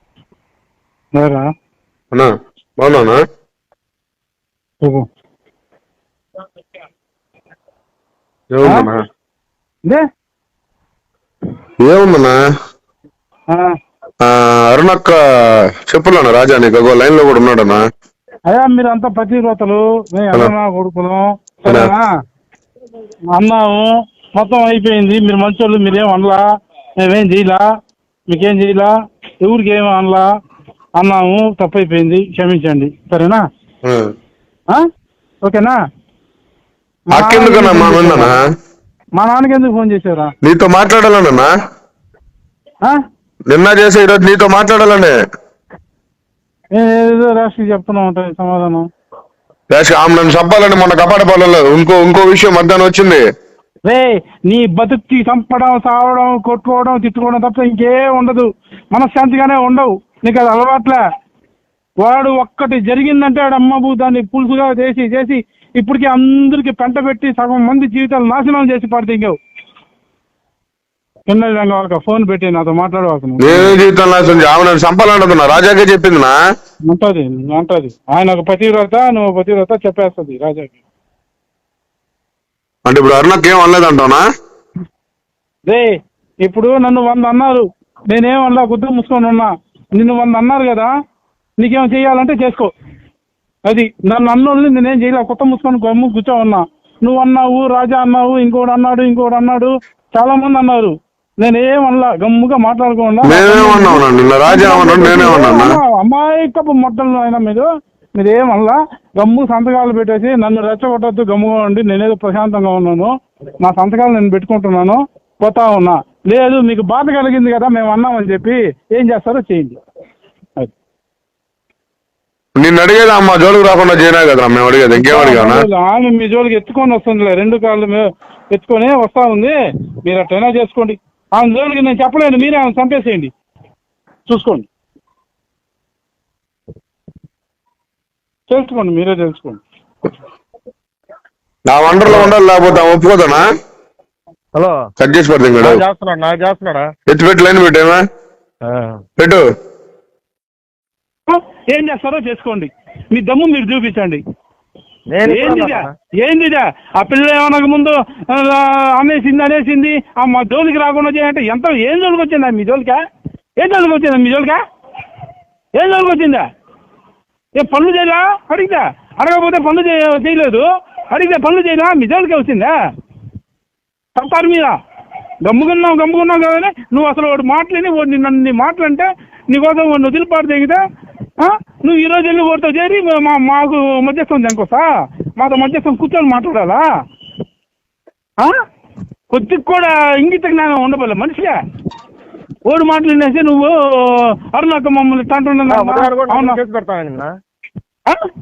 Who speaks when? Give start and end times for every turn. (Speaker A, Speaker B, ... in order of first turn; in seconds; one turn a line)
Speaker A: 1.1-1.5
Speaker B: 2.1-3.2
Speaker A: 4.8-5.1
Speaker B: 8.5-9.0
Speaker B: 11.8-12.4
Speaker B: 14.2-17.8
Speaker A: 18.5-22.0
Speaker A: 23.3-26.4
Speaker A: 27.0-27.6
Speaker A: 28.3-28.9
Speaker A: 29.4-30.3
Speaker A: 31.0-33.4
Speaker A: 35.4-35.8
Speaker A: 37.1-38.3
Speaker B: 37.1-38.4
Speaker A: 39.2-40.3
Speaker B: 40.4-41.5
Speaker B: 43.5-45.1
Speaker A: 46.7-48.9
Speaker B: 49.7-53.2
Speaker A: 53.9-61.0
Speaker A: 62.0-69.3
Speaker A: 71.3-73.7
Speaker B: 73.4-76.3
Speaker A: 76.9-80.8
Speaker B: 82.8-84.2
Speaker A: 86.4-90.9
Speaker A: 91.6-92.7
Speaker A: 93.7-119.8
Speaker B: 103.2-105.8
Speaker B: 122.5-125.7
Speaker A: 125.0-129.5
Speaker A: 130.0-133.3
Speaker A: 134.3-134.7
Speaker A: 138.5-139.6
Speaker B: 141.7-143.4
Speaker C: 144.5-144.8
Speaker B: 145.0-145.8
Speaker C: 145.6-146.9
Speaker B: 147.1-148.0
Speaker C: 148.7-149.0
Speaker B: 149.2-149.4
Speaker A: 151.3-154.2
Speaker C: 155.1-155.9
Speaker A: 155.2-163.0
Speaker A: 163.6-164.6
Speaker A: 165.8-166.4
Speaker A: 167.6-172.7
Speaker A: 174.2-174.7
Speaker A: 175.4-180.8
Speaker A: 181.4-186.8
Speaker A: 189.3-191.5
Speaker A: 192.7-196.6
Speaker C: 195.7-197.3